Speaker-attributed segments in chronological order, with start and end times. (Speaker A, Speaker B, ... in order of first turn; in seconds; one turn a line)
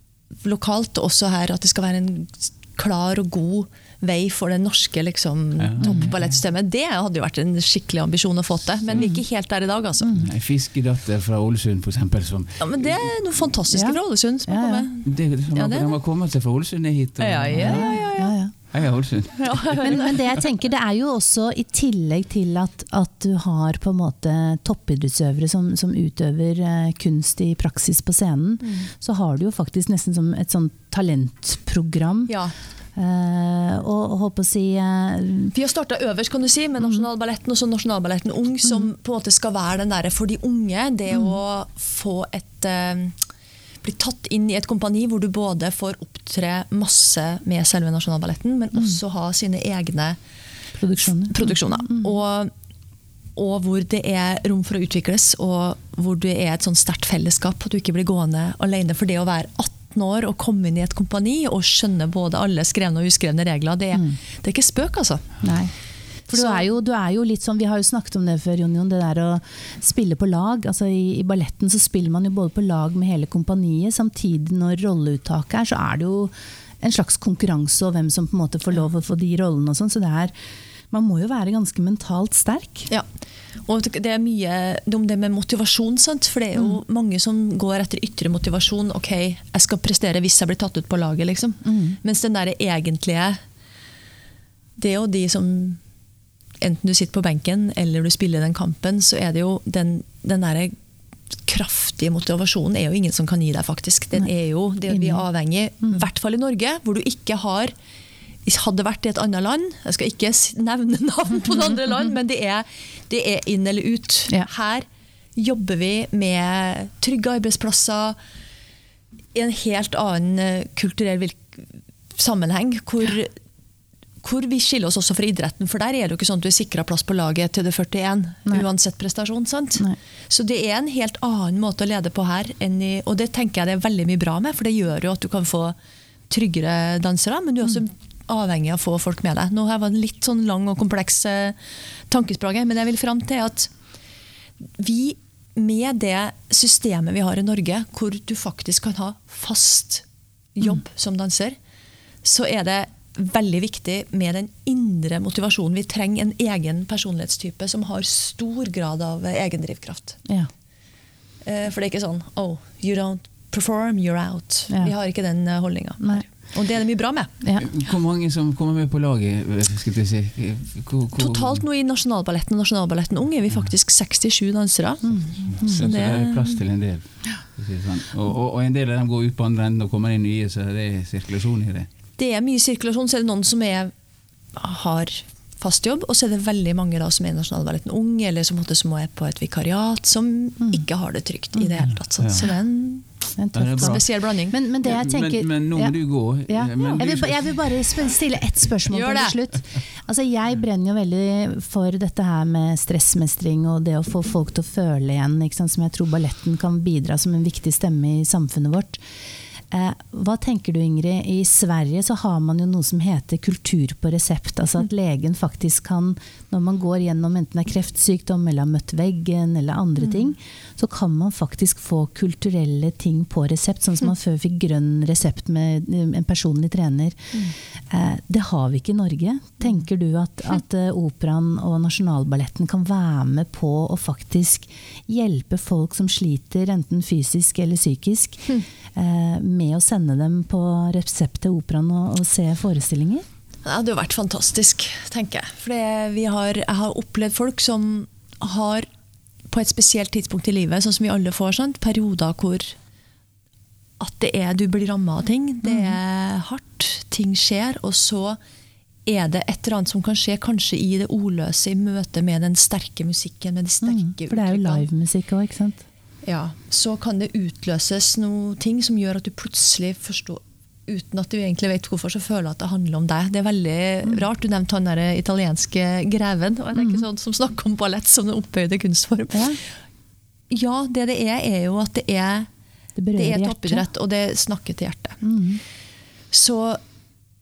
Speaker A: 0.4-10.2
Speaker B: 5.6-6.3
Speaker C: 5.8-6.1
Speaker B: 8.8-9.1
Speaker C: 10.0-10.3
Speaker B: 10.2-13.1
Speaker A: 12.6-15.9
Speaker C: 13.7-14.9
Speaker B: 15.0-18.0
Speaker A: 17.2-18.4
Speaker C: 17.5-18.5
Speaker B: 18.7-19.8
Speaker A: 19.4-20.2
Speaker C: 19.8-32.3
Speaker A: 28.6-28.9
Speaker A: 32.3-32.5
Speaker C: 33.0-35.5
Speaker A: 35.5-43.2
Speaker A: 43.8-50.2
Speaker C: 50.8-52.1
Speaker A: 51.0-52.5
Speaker A: 53.4-65.4
Speaker C: 65.4-65.7
Speaker C: 66.3-80.3
Speaker A: 66.3-66.7
Speaker C: 80.9-82.9
Speaker A: 83.7-93.4
Speaker C: 91.6-92.0
Speaker A: 94.8-95.8
Speaker A: 96.6-100.7
Speaker A: 101.5-107.7
Speaker C: 104.9-105.2
Speaker A: 108.5-118.2
Speaker A: 119.3-123.3
Speaker A: 124.2-135.8
Speaker A: 136.3-141.6
Speaker A: 142.1-143.7
Speaker A: 144.8-151.6
Speaker A: 152.2-160.2
Speaker A: 161.4-167.3
Speaker C: 166.0-166.2
Speaker B: 167.6-171.6
Speaker A: 171.2-176.6
Speaker C: 175.0-175.9
Speaker B: 175.5-181.9
Speaker A: 182.2-183.9
Speaker A: 184.6-193.1
Speaker B: 192.2-192.5
Speaker C: 193.4-196.0
Speaker B: 193.6-194.1
Speaker A: 193.8-194.6
Speaker B: 194.8-198.1
Speaker C: 196.5-209.0
Speaker A: 198.9-199.3
Speaker C: 209.7-243.3
Speaker A: 243.6-248.9
Speaker A: 249.5-252.8
Speaker A: 254.0-258.4
Speaker C: 255.7-256.0
Speaker A: 259.1-264.9
Speaker C: 263.8-265.9
Speaker A: 266.2-279.7
Speaker C: 276.8-277.0
Speaker C: 279.3-279.6
Speaker A: 280.5-282.5
Speaker C: 283.0-283.9
Speaker A: 283.1-285.2
Speaker C: 285.2-285.6
Speaker A: 286.3-286.8